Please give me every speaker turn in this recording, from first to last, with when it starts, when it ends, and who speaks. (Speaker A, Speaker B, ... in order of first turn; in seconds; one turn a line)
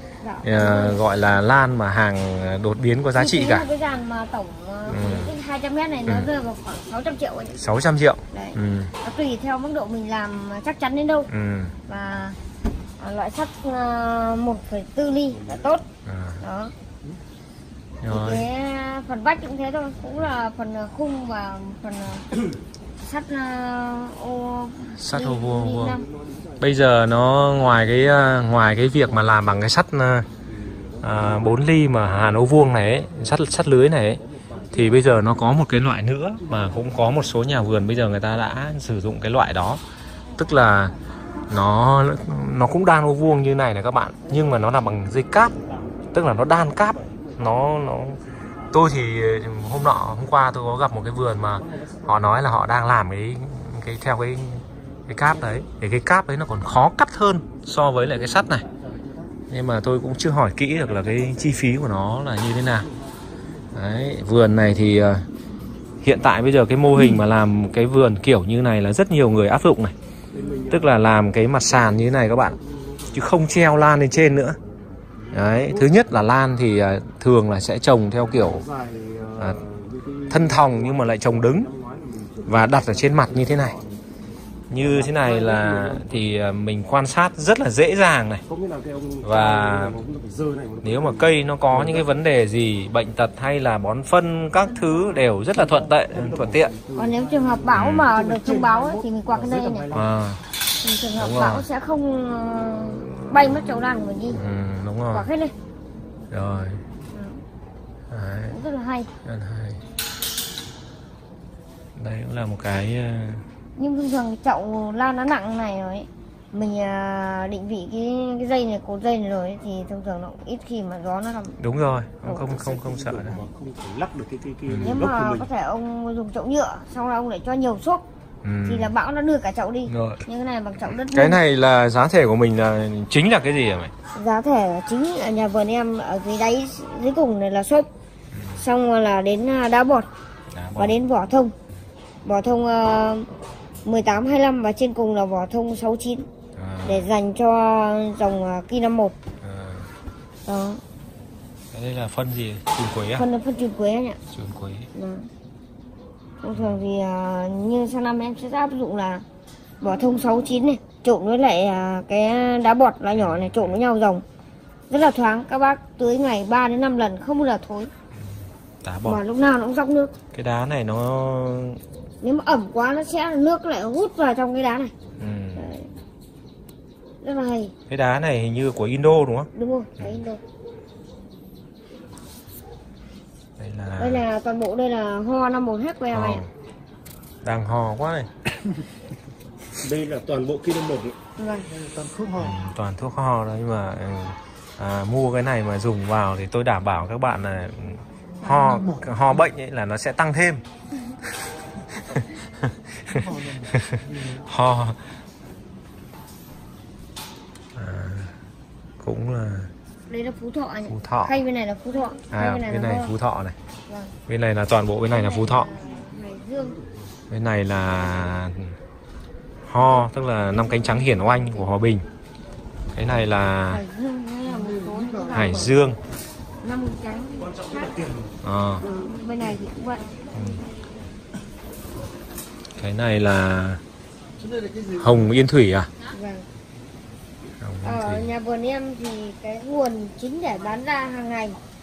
Speaker A: 0.2-1.2
Speaker B: 0.4-3.7
Speaker A: 3.1-7.6
Speaker B: 4.9-5.3
Speaker B: 7.6-8.9
Speaker A: 8.3-11.3
Speaker B: 11.3-11.7
Speaker A: 11.9-12.4
Speaker A: 13.0-15.8
Speaker B: 16.0-16.4
Speaker A: 16.4-16.7
Speaker B: 18.0-18.5
Speaker A: 18.1-22.3
Speaker A: 23.0-26.1
Speaker B: 25.0-26.0
Speaker C: 26.2-26.6
Speaker B: 26.6-30.3
Speaker B: 31.0-39.8
Speaker C: 34.5-34.7
Speaker B: 40.4-40.9
Speaker B: 41.5-45.5
Speaker B: 46.1-48.2
Speaker B: 48.7-58.6
Speaker C: 58.8-59.3
Speaker B: 59.5-62.9
Speaker B: 63.7-65.2
Speaker B: 66.0-69.9
Speaker C: 70.3-70.8
Speaker A: 70.4-70.6
Speaker B: 70.7-72.6
Speaker C: 72.7-73.1
Speaker B: 73.1-74.6
Speaker B: 75.3-78.7
Speaker C: 75.3-75.8
Speaker C: 78.4-82.6
Speaker B: 80.3-81.7
Speaker B: 82.5-83.8
Speaker C: 83.1-83.9
Speaker B: 84.7-88.4
Speaker C: 84.8-86.1
Speaker C: 88.5-92.0
Speaker B: 89.2-90.0
Speaker B: 90.8-96.7
Speaker C: 95.6-100.0
Speaker A: 96.9-99.9
Speaker B: 97.7-98.1
Speaker B: 99.9-100.4
Speaker A: 100.8-104.4
Speaker B: 101.2-101.7
Speaker B: 104.3-105.3
Speaker A: 105.1-105.5
Speaker B: 106.3-106.8
Speaker A: 107.1-107.4
Speaker B: 108.1-108.5
Speaker A: 108.5-109.1
Speaker B: 109.2-109.8
Speaker B: 112.0-113.4
Speaker A: 113.8-121.6
Speaker B: 121.6-123.4
Speaker C: 122.4-125.5
Speaker B: 124.7-125.1
Speaker A: 124.8-128.0
Speaker B: 128.4-128.9
Speaker A: 128.6-131.4
Speaker B: 129.9-130.2
Speaker B: 131.1-133.9
Speaker A: 134.1-137.9
Speaker A: 138.5-140.1
Speaker B: 140.5-140.9
Speaker A: 140.8-141.5
Speaker A: 142.2-143.3
Speaker A: 143.8-146.3
Speaker B: 146.6-147.1
Speaker A: 146.8-149.2
Speaker B: 149.4-149.9
Speaker A: 150.5-150.8
Speaker B: 151.7-153.2
Speaker A: 153.2-154.2
Speaker B: 154.3-154.9
Speaker A: 154.9-155.3
Speaker A: 156.4-159.2
Speaker A: 159.8-164.2
Speaker B: 163.1-163.8
Speaker A: 164.9-167.9
Speaker B: 168.8-169.2
Speaker A: 169.1-170.1
Speaker B: 170.3-171.8
Speaker A: 172.2-174.9
Speaker B: 175.2-175.7
Speaker A: 175.6-175.9
Speaker A: 177.2-177.7
Speaker B: 177.9-180.2
Speaker A: 179.5-180.4
Speaker B: 183.6-184.2
Speaker A: 184.0-186.4
Speaker B: 186.1-186.5
Speaker B: 187.4-188.5
Speaker C: 189.8-191.2
Speaker A: 191.4-191.7
Speaker C: 191.7-192.6
Speaker B: 192.3-200.6
Speaker C: 198.6-199.1
Speaker B: 201.2-205.0
Speaker C: 203.1-204.4
Speaker B: 207.7-208.3
Speaker B: 209.0-209.7
Speaker A: 210.1-213.1
Speaker B: 210.9-211.3
Speaker B: 212.3-213.6
Speaker A: 213.9-214.1
Speaker B: 214.3-215.7
Speaker A: 215.1-216.8
Speaker B: 217.3-218.8
Speaker B: 219.7-222.1
Speaker A: 220.5-221.7
Speaker B: 222.9-223.8
Speaker A: 223.7-225.7
Speaker C: 224.5-225.8
Speaker B: 225.3-226.0
Speaker A: 226.6-228.0
Speaker B: 228.4-228.9
Speaker A: 228.8-230.1
Speaker B: 230.3-230.6
Speaker B: 232.8-233.8
Speaker C: 234.4-235.3
Speaker B: 235.0-235.9
Speaker A: 236.1-236.4
Speaker B: 237.6-238.3
Speaker A: 237.8-241.6